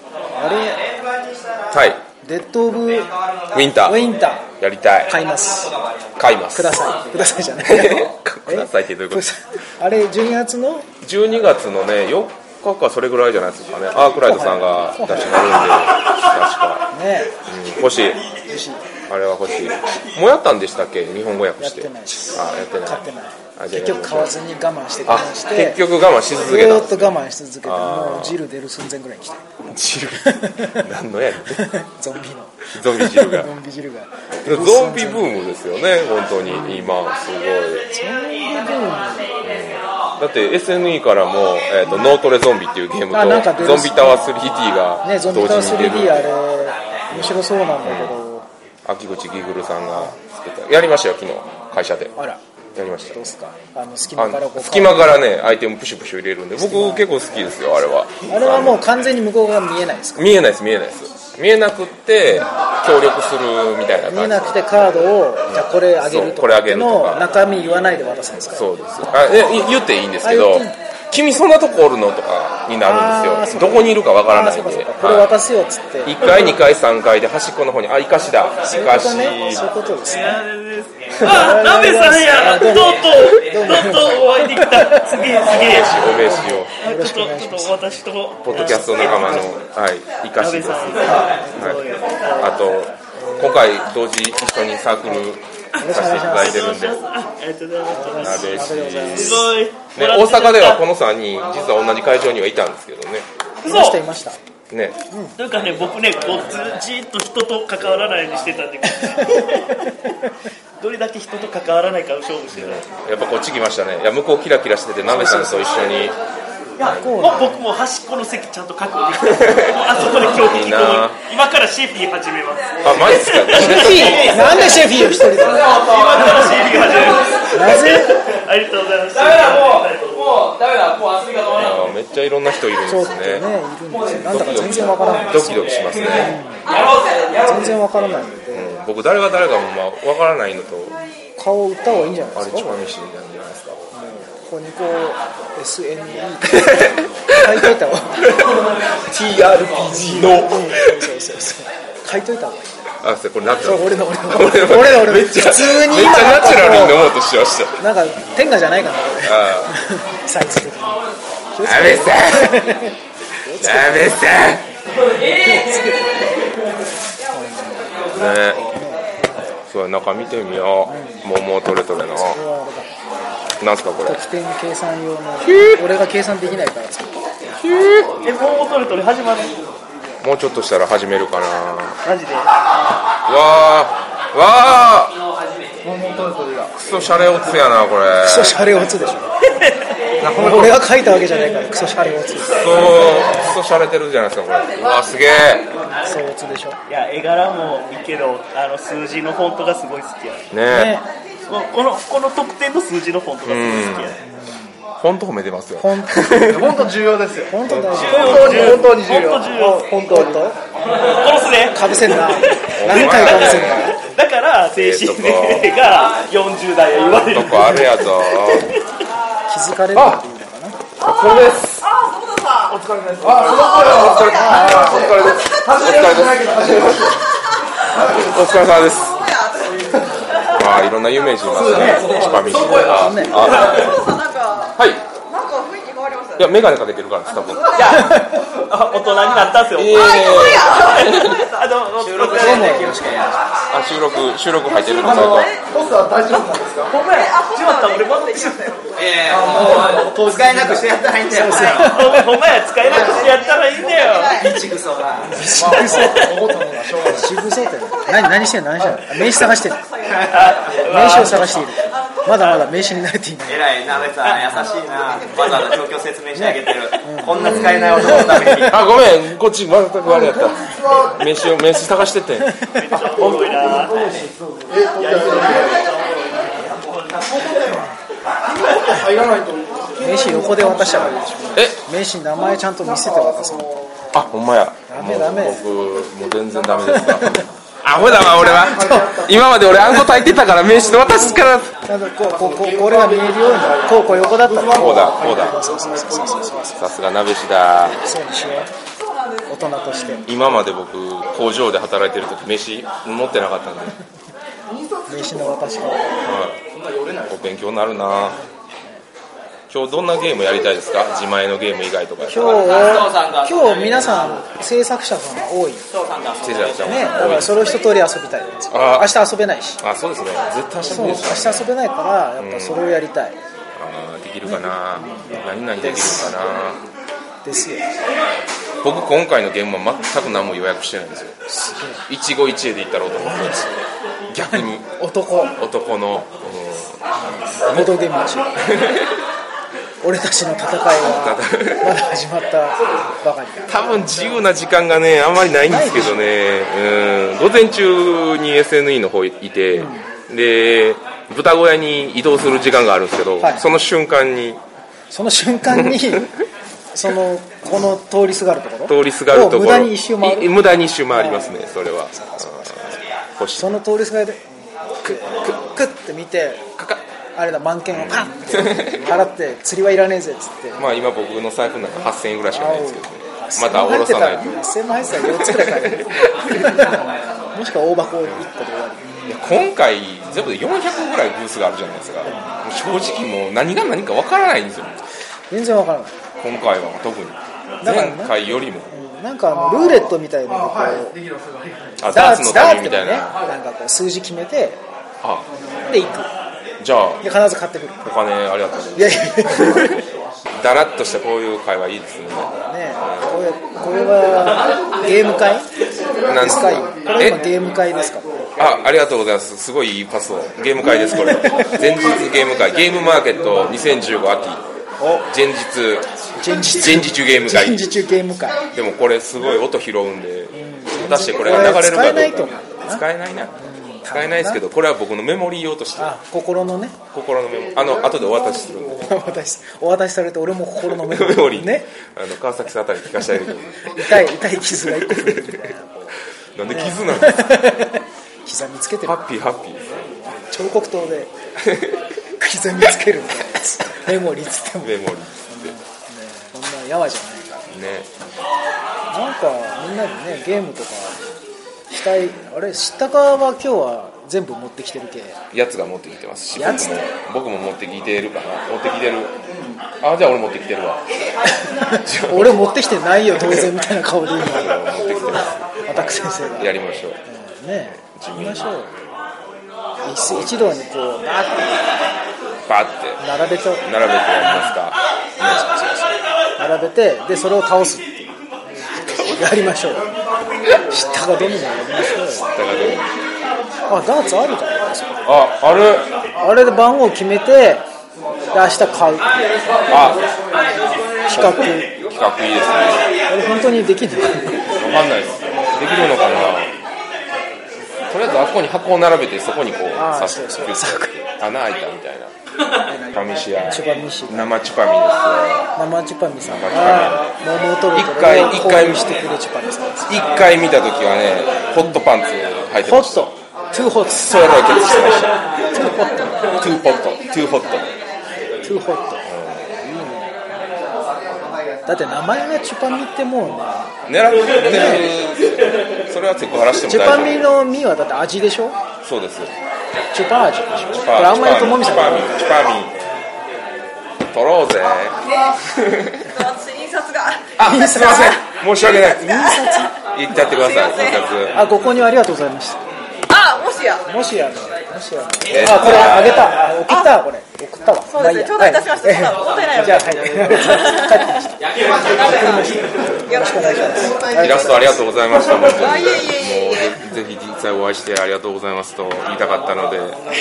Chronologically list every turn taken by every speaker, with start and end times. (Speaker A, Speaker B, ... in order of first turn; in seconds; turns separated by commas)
Speaker A: 0.3-1.9, Speaker B: 0.4-0.8, Speaker C: 1.7-2.0, Speaker B: 2.2-3.1, Speaker A: 2.8-4.1, Speaker C: 3.5-4.0, Speaker B: 3.8-4.4, Speaker C: 4.6-5.1, Speaker A: 5.0-7.4, Speaker B: 5.1-5.7, Speaker C: 6.2-6.9, Speaker B: 6.5-10.9, Speaker C: 7.6-9.3, Speaker C: 11.0-18.2, Speaker B: 13.9-15.6, Speaker B: 16.9-17.3, Speaker B: 18.5-18.8, Speaker C: 19.1-23.0, Speaker B: 21.6-25.8, Speaker C: 23.6-24.3, Speaker C: 25.1-28.4, Speaker B: 26.4-29.4, Speaker C: 29.7-31.6, Speaker B: 30.2-30.8, Speaker B: 31.5-35.3, Speaker C: 32.7-33.5, Speaker C: 34.4-37.9, Speaker B: 36.5-36.9, Speaker B: 37.9-39.3, Speaker A: 38.0-40.1, Speaker C: 39.4-46.3, Speaker B: 41.8-42.1, Speaker B: 43.1-44.3, Speaker B: 45.0-48.5, Speaker A: 46.6-47.0, Speaker C: 47.1-48.2, Speaker C: 48.8-52.1, Speaker C: 52.7-53.2, Speaker B: 53.1-55.3, Speaker C: 54.1-58.9, Speaker B: 56.6-57.1, Speaker B: 58.3-60.4, Speaker C: 60.1-64.8, Speaker B: 64.1-68.7, Speaker C: 65.5-67.3, Speaker C: 68.5-75.4, Speaker B: 70.2-70.7, Speaker B: 72.8-76.2, Speaker C: 76.0-79.7, Speaker B: 78.6-80.5, Speaker D: 80.0-86.1, Speaker B: 81.2-88.0, Speaker C: 85.5-86.7, Speaker D: 86.8-89.4, Speaker C: 88.4-91.8, Speaker B: 88.5-89.2, Speaker D: 90.4-92.6, Speaker B: 91.0-91.7, Speaker C: 92.4-97.0, Speaker B: 95.8-96.6, Speaker D: 96.2-100.8, Speaker B: 97.9-99.5, Speaker C: 98.2-103.3, Speaker D: 103.6-104.0, Speaker B: 103.6-104.4, Speaker C: 104.7-105.0, Speaker D: 105.4-109.9, Speaker D: 110.8-112.9, Speaker C: 112.5-116.2, Speaker B: 115.0-115.8, Speaker D: 116.8-130.5, Speaker C: 116.8-117.2, Speaker B: 116.8-117.7, Speaker C: 120.4-121.2, Speaker C: 122.8-124.6, Speaker B: 123.5-125.8, Speaker B: 127.5-128.2, Speaker C: 131.5-133.4, Speaker B: 132.8-138.8, Speaker C: 134.1-136.3, Speaker C: 138.5-141.0, Speaker B: 141.4-142.8, Speaker C: 141.8-143.8, Speaker B: 143.9-148.2, Speaker C: 146.5-147.6, Speaker C: 148.2-151.1, Speaker B: 149.6-152.7, Speaker C: 153.0-157.8, Speaker B: 153.6-157.0, Speaker B: 157.8-161.0, Speaker C: 159.2-159.7, Speaker B: 161.5-164.2, Speaker C: 161.6-162.7, Speaker C: 163.6-164.7, Speaker B: 165.1-166.5, Speaker B: 167.3-169.1, Speaker C: 168.1-168.7, Speaker C: 169.7-172.4, Speaker B: 170.8-171.2, Speaker B: 172.2-172.9, Speaker C: 173.6-174.2, Speaker B: 174.0-177.2, Speaker C: 175.4-175.8, Speaker C: 177.6-178.2, Speaker D: 178.2-179.6, Speaker C: 180.2-182.0, Speaker D: 182.0-182.5, Speaker C: 183.2-185.2, Speaker E: 185.8-187.4, Speaker C: 186.7-188.6, Speaker B: 188.2-189.3, Speaker D: 189.5-189.9, Speaker C: 190.2-190.8, Speaker B: 190.3-193.4, Speaker C: 192.4-195.7, Speaker B: 196.1-196.8, Speaker D: 196.9-200.4, Speaker C: 200.5-200.9, Speaker B: 200.7-201.1, Speaker D: 201.5-204.2, Speaker C: 203.4-204.2, Speaker C: 205.0-206.8, Speaker B: 205.8-206.9, Speaker E: 206.5-210.4, Speaker B: 207.4-208.9, Speaker D: 208.0-210.0, Speaker C: 208.3-208.8, Speaker B: 209.5-210.6, Speaker D: 211.0-218.8, Speaker B: 211.7-213.9, Speaker C: 212.7-214.0, Speaker C: 214.7-215.7, Speaker C: 217.1-218.7, Speaker B: 219.5-220.8, Speaker C: 219.9-220.2, Speaker C: 221.0-221.9, Speaker F: 221.9-222.7, Speaker C: 222.7-227.2, Speaker E: 223.2-227.2, Speaker F: 224.1-224.5, Speaker E: 227.9-228.4, Speaker C: 228.1-229.2, Speaker F: 228.7-229.9, Speaker E: 229.9-230.3, Speaker C: 230.5-234.0, Speaker E: 231.5-233.0, Speaker B: 231.6-233.4, Speaker F: 233.4-234.7, Speaker C: 234.8-235.0, Speaker F: 235.3-236.7, Speaker C: 236.4-237.8, Speaker F: 237.2-238.2, Speaker D: 237.7-243.0, Speaker F: 239.0-239.3, Speaker C: 239.7-241.4, Speaker F: 239.9-241.6, Speaker A: 242.0-243.7, Speaker B: 242.4-243.1, Speaker C: 243.7-245.5, Speaker E: 244.7-247.0, Speaker F: 245.2-245.7, Speaker D: 246.9-248.7, Speaker F: 247.1-249.0, Speaker A: 249.0-252.2, Speaker E: 249.2-251.5, Speaker B: 251.3-252.1, Speaker D: 251.8-254.4, Speaker E: 252.8-253.3, Speaker F: 253.3-254.6, Speaker A: 254.4-255.3, Speaker B: 255.3-256.3, Speaker E: 255.4-257.4, Speaker D: 256.0-256.3, Speaker B: 257.1-259.8, Speaker F: 259.9-260.3, Speaker A: 260.1-260.5, Speaker D: 260.3-261.7, Speaker B: 260.9-263.6, Speaker A: 263.5-268.8, Speaker D: 264.2-264.5, Speaker B: 266.3-268.7, Speaker C: 267.4-268.0, Speaker C: 268.6-272.5, Speaker E: 270.2-271.1, Speaker B: 272.6-273.0, Speaker D: 272.8-274.1, Speaker E: 273.0-275.9, Speaker A: 275.0-277.2, Speaker E: 277.2-277.8, Speaker E: 278.5-281.4, Speaker B: 280.0-283.7, Speaker C: 281.5-281.8, Speaker E: 282.7-283.8, Speaker C: 284.1-291.7, Speaker B: 284.9-285.6, Speaker B: 286.9-287.4, Speaker E: 288.1-290.0, Speaker B: 288.1-289.1, Speaker E: 290.9-291.2, Speaker B: 291.2-296.9, Speaker E: 292.2-296.5, Speaker C: 294.7-295.6, Speaker C: 296.8-298.0, Speaker B: 298.0-298.7, Speaker B: 299.5-300.2, Speaker C: 300.2-303.9, Speaker E: 304.7-305.8, Speaker B: 305.1-306.0, Speaker C: 306.2-306.6, Speaker E: 306.7-307.5, Speaker C: 307.3-308.4, Speaker C: 309.7-312.7, Speaker B: 312.3-315.8, Speaker A: 312.4-314.4, Speaker A: 315.9-317.4, Speaker C: 316.4-317.8, Speaker B: 316.8-319.8, Speaker C: 318.7-319.1, Speaker C: 319.8-321.7, Speaker B: 320.8-323.4, Speaker C: 322.4-322.8, Speaker C: 323.8-326.8, Speaker B: 324.4-326.4, Speaker B: 327.4-327.8, Speaker C: 328.8-331.4, Speaker B: 331.5-332.0, Speaker C: 332.1-333.7, Speaker B: 333.1-333.8, Speaker C: 334.3-334.9, Speaker B: 334.5-335.5, Speaker C: 335.6-337.0, Speaker C: 337.6-337.9, Speaker B: 337.6-338.5, Speaker B: 340.0-343.7, Speaker C: 341.1-342.0, Speaker C: 343.7-354.6, Speaker B: 345.7-346.2, Speaker B: 349.7-350.0, Speaker B: 353.4-353.6, Speaker B: 355.1-356.3, Speaker C: 355.9-356.2, Speaker B: 356.9-360.5, Speaker C: 358.9-363.7, Speaker B: 361.1-362.9, Speaker B: 363.6-364.4, Speaker B: 365.0-366.6, Speaker C: 365.1-365.4, Speaker C: 366.8-367.0, Speaker B: 367.4-370.8, Speaker C: 367.9-369.0, Speaker C: 370.8-376.9, Speaker B: 372.0-379.2, Speaker C: 379.3-385.0, Speaker B: 385.5-386.1, Speaker C: 386.4-388.9, Speaker B: 387.8-391.1, Speaker E: 391.1-392.0, Speaker C: 392.0-393.4, Speaker B: 392.1-394.8, Speaker C: 395.2-395.5, Speaker B: 395.9-396.3, Speaker C: 396.8-397.2, Speaker B: 397.2-398.1, Speaker C: 398.0-399.9, Speaker B: 398.9-399.9, Speaker C: 400.5-403.4, Speaker B: 402.6-405.7, Speaker C: 406.2-407.4, Speaker B: 406.3-408.4, Speaker C: 408.6-414.6, Speaker B: 410.8-411.8, Speaker C: 415.2-417.9, Speaker B: 416.4-418.6, Speaker C: 418.7-423.5, Speaker B: 420.5-423.0, Speaker B: 423.6-424.6, Speaker C: 424.1-426.2, Speaker B: 426.0-427.0, Speaker C: 427.1-429.1, Speaker B: 429.1-431.9, Speaker C: 430.9-435.7, Speaker B: 433.9-436.1, Speaker C: 436.6-437.5, Speaker B: 436.7-439.2, Speaker C: 439.0-440.1, Speaker B: 440.3-441.3, Speaker C: 441.6-442.0, Speaker B: 442.4-445.0, Speaker C: 444.8-445.7, Speaker B: 445.5-447.7, Speaker C: 447.7-448.1, Speaker B: 449.1-451.2, Speaker B: 451.9-455.4, Speaker C: 455.5-459.3, Speaker B: 456.6-457.1, Speaker C: 460.0-461.0, Speaker B: 461.8-464.7, Speaker C: 462.0-462.6, Speaker C: 463.3-463.7, Speaker C: 464.4-467.2, Speaker B: 465.9-466.7, Speaker B: 467.3-468.9, Speaker C: 467.9-468.8, Speaker B: 470.0-471.7, Speaker C: 470.2-470.6, Speaker C: 472.7-473.2, Speaker B: 473.2-473.8, Speaker C: 473.8-475.8, Speaker B: 474.4-474.8, Speaker B: 475.4-478.2, Speaker B: 479.1-480.1, Speaker B: 480.8-482.4, Speaker C: 482.4-483.1, Speaker B: 483.9-485.3, Speaker C: 485.2-486.1, Speaker B: 486.4-487.8, Speaker B: 488.5-489.4, Speaker C: 489.9-490.2, Speaker B: 491.2-491.9, Speaker C: 491.2-493.1, Speaker B: 493.3-494.7, Speaker C: 494.8-496.7, Speaker C: 498.1-502.3, Speaker B: 499.9-501.1, Speaker C: 503.1-505.7, Speaker B: 503.7-504.5, Speaker B: 505.8-510.3, Speaker C: 506.4-509.2, Speaker C: 510.1-513.3, Speaker B: 512.8-514.5, Speaker C: 514.1-515.4, Speaker B: 515.7-516.4, Speaker C: 516.3-517.9, Speaker B: 518.6-519.2, Speaker C: 519.2-519.7, Speaker B: 519.8-520.3, Speaker B: 521.9-523.9, Speaker C: 524.1-527.5, Speaker B: 524.5-525.1, Speaker B: 526.9-528.8, Speaker C: 529.0-529.5, Speaker B: 530.1-532.3, Speaker C: 530.9-532.9, Speaker C: 534.3-535.2, Speaker F: 535.3-535.5, Speaker C: 535.7-536.2, Speaker F: 536.2-537.5, Speaker C: 537.6-539.5, Speaker B: 537.6-539.9, Speaker F: 538.8-539.7, Speaker C: 540.1-542.1, Speaker F: 540.5-541.2, Speaker B: 541.5-542.8, Speaker F: 543.3-544.0, Speaker B: 544.1-555.1, Speaker C: 545.4-546.5, Speaker F: 548.1-551.3, Speaker F: 552.0-552.7, Speaker F: 553.3-554.2, Speaker C: 554.4-560.2, Speaker F: 555.8-557.0